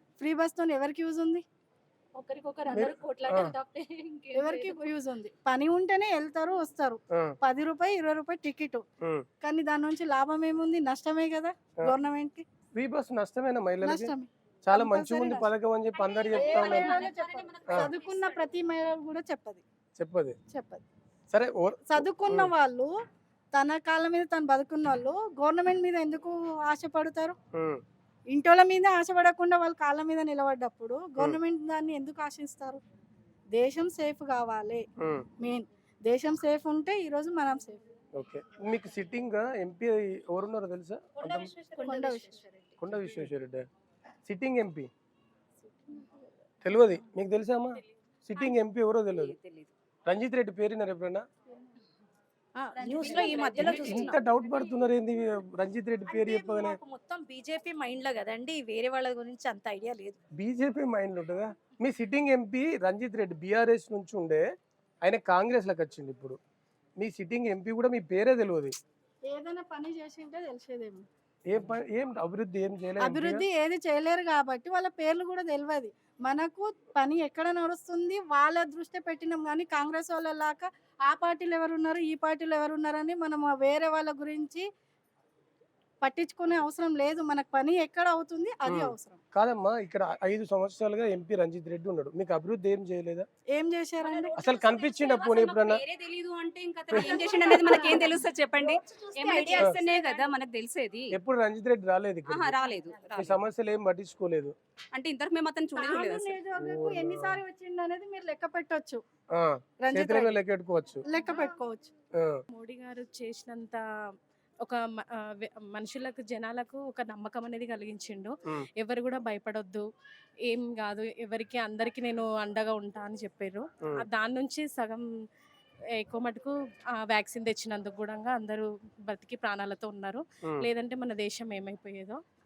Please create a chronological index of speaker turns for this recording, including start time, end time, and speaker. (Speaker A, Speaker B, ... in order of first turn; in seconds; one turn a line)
Speaker A: 0.2-1.4
Speaker B: 2.1-4.8
Speaker C: 2.7-3.5
Speaker A: 4.3-8.8
Speaker A: 9.4-12.4
Speaker C: 12.7-14.1
Speaker A: 13.8-15.5
Speaker C: 14.6-16.9
Speaker D: 15.9-18.6
Speaker A: 16.3-19.6
Speaker C: 20.0-20.4
Speaker A: 20.5-20.8
Speaker C: 21.3-22.5
Speaker A: 21.9-22.9
Speaker A: 23.5-27.4
Speaker C: 27.5-27.8
Speaker A: 28.3-32.8
Speaker A: 33.5-34.9
Speaker C: 35.0-35.2
Speaker A: 35.4-37.8
Speaker C: 38.1-41.5
Speaker E: 41.2-42.8
Speaker A: 41.8-42.4
Speaker C: 42.8-43.6
Speaker C: 44.2-44.9
Speaker C: 46.6-49.3
Speaker D: 49.1-49.7
Speaker C: 50.0-51.2
Speaker E: 52.5-54.2
Speaker D: 52.8-54.2
Speaker C: 53.2-56.8
Speaker E: 56.1-60.2
Speaker C: 60.4-64.4
Speaker C: 65.0-66.4
Speaker C: 67.0-68.7
Speaker A: 69.3-71.0
Speaker C: 71.5-73.4
Speaker A: 73.0-84.6
Speaker A: 86.0-89.2
Speaker C: 88.6-93.2
Speaker A: 93.5-94.4
Speaker D: 94.0-101.1
Speaker C: 94.4-95.8
Speaker A: 97.0-98.2
Speaker E: 97.0-100.3
Speaker C: 101.1-102.5
Speaker D: 102.3-103.4
Speaker E: 102.7-103.2
Speaker C: 103.2-104.5
Speaker D: 104.9-106.4
Speaker A: 105.8-109.0
Speaker C: 106.6-107.4
Speaker C: 109.3-111.0
Speaker A: 109.8-110.4
Speaker A: 111.0-111.9
Speaker B: 112.5-113.8
Speaker B: 114.6-119.8
Speaker B: 120.5-125.0
Speaker B: 126.0-132.2
Speaker C: 130.4-130.7